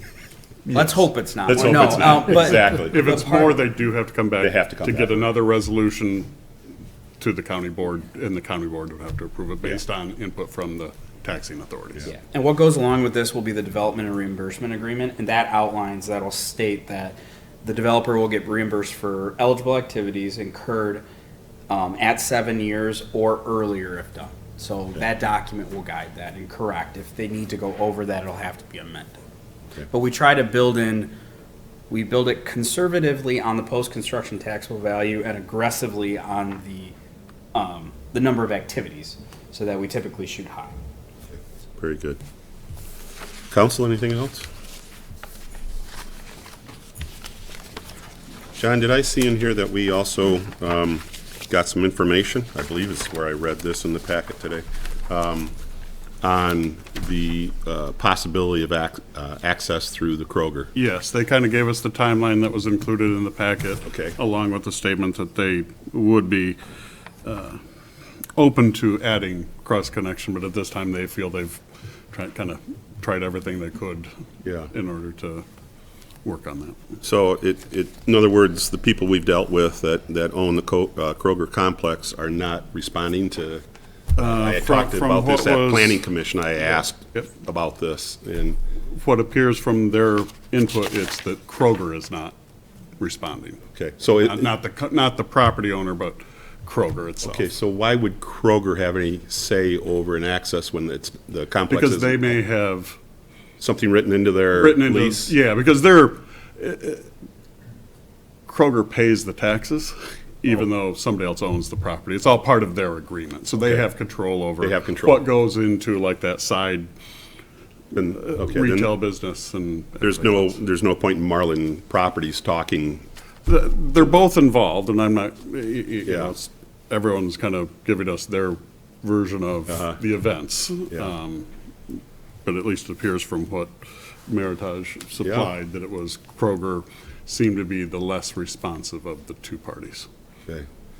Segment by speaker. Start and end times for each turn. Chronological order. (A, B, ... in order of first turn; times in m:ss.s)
0:00.7-0:03.6 A
0:01.5-0:03.2 B
0:02.1-0:06.3 C
0:04.4-0:05.3 B
0:07.2-0:12.1 C
0:12.0-0:21.0 A
0:21.7-0:29.2 A
0:29.9-0:31.1 A
0:31.9-0:36.9 A
0:37.5-0:40.8 A
0:41.8-0:42.2 B
0:43.5-0:44.5 B
0:48.5-0:55.5 B
0:56.2-1:00.7 B
1:00.7-1:06.6 C
1:03.8-1:04.2 B
1:07.2-1:07.6 C
1:08.4-1:11.6 C
1:12.1-1:14.1 C
1:14.4-1:14.7 B
1:14.7-1:15.4 C
1:16.2-1:16.8 C
1:17.0-1:23.6 B
1:24.1-1:28.6 B
1:24.2-1:26.0 C
1:28.9-1:32.3 C
1:33.0-1:33.6 C
1:33.7-1:34.5 B
1:34.2-1:37.5 C
1:37.2-1:42.3 B
1:41.7-1:43.0 C
1:43.6-1:45.3 B
1:44.5-1:47.1 C
1:48.5-1:56.9 C
1:54.6-1:55.2 B
1:57.9-1:58.9 B
1:57.9-2:00.4 C
2:00.0-2:03.0 B
2:03.4-2:13.7 C
2:06.0-2:06.3 B
2:09.7-2:10.0 B
2:14.3-2:20.1 C
2:15.2-2:15.5 B